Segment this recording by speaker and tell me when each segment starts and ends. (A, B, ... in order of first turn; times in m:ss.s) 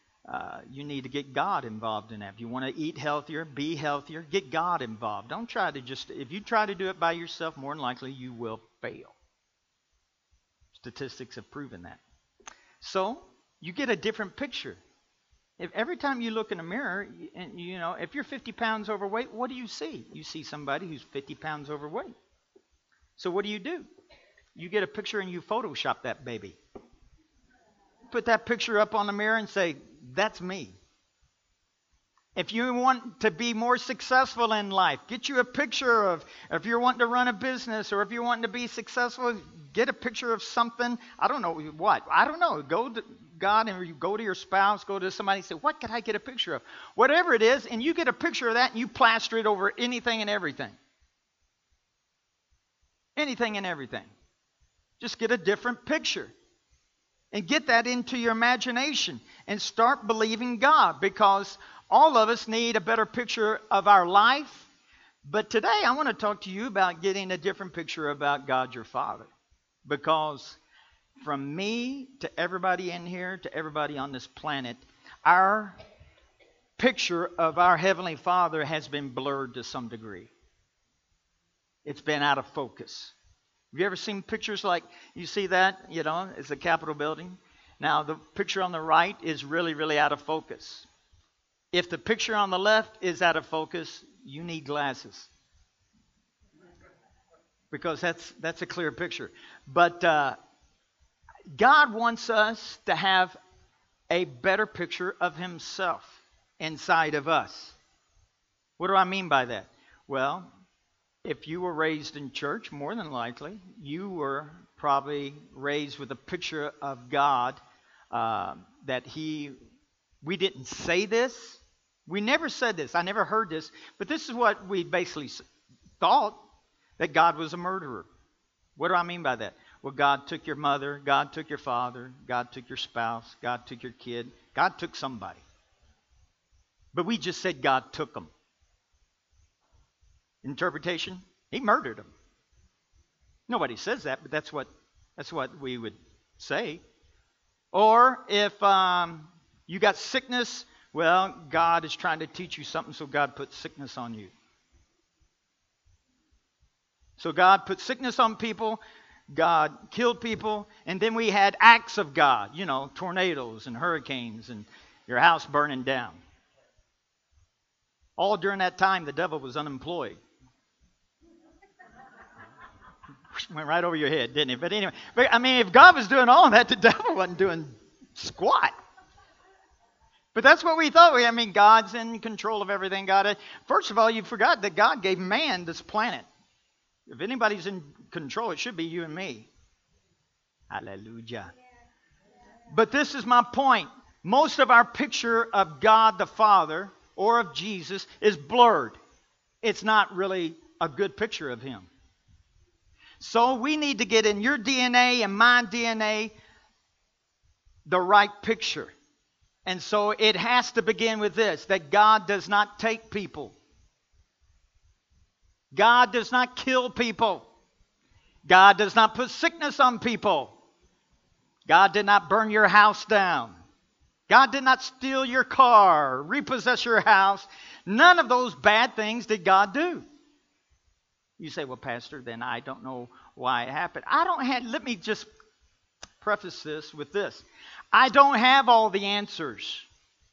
0:00.3-0:09.2 A
0:10.7-0:12.0 A
0:12.8-0:14.8 A
0:15.6-0:22.1 A
0:23.2-0:23.9 A
0:24.6-0:26.6 A
0:28.1-0:30.8 A
0:32.4-0:50.8 A
0:53.2-0:54.1 A
0:55.0-0:56.3 A
0:57.3-1:04.7 A
1:05.2-1:09.3 A
1:09.9-1:10.6 A
1:11.2-1:15.8 A
1:16.8-1:20.3 A
1:21.8-1:23.1 A
1:23.7-1:30.9 A
1:31.7-1:35.3 A
1:37.7-1:40.4 A
1:41.5-1:43.4 A
1:44.1-1:47.8 A
1:48.8-1:50.5 A
1:51.2-1:57.6 A
1:58.1-1:59.6 A
2:00.2-2:05.4 A
2:06.0-2:06.4 A
2:07.0-2:08.1 A
2:08.8-2:15.4 A
2:16.9-2:18.3 A
2:20.4-2:22.1 A
2:23.5-2:26.8 A
2:27.7-2:34.3 A
2:37.2-2:46.2 A
2:48.2-2:50.2 A
2:53.3-2:58.8 A
3:00.3-3:06.3 A
3:07.1-3:09.5 A
3:10.7-3:11.5 A
3:12.7-3:19.0 A
3:19.6-3:21.9 A
3:23.2-3:26.3 A
3:27.9-3:28.9 A
3:29.6-3:33.6 A
3:35.7-3:37.5 A
3:38.5-3:40.6 A
3:41.7-3:43.6 A
3:44.3-3:50.0 A
3:51.4-3:55.3 A
3:56.2-3:59.9 A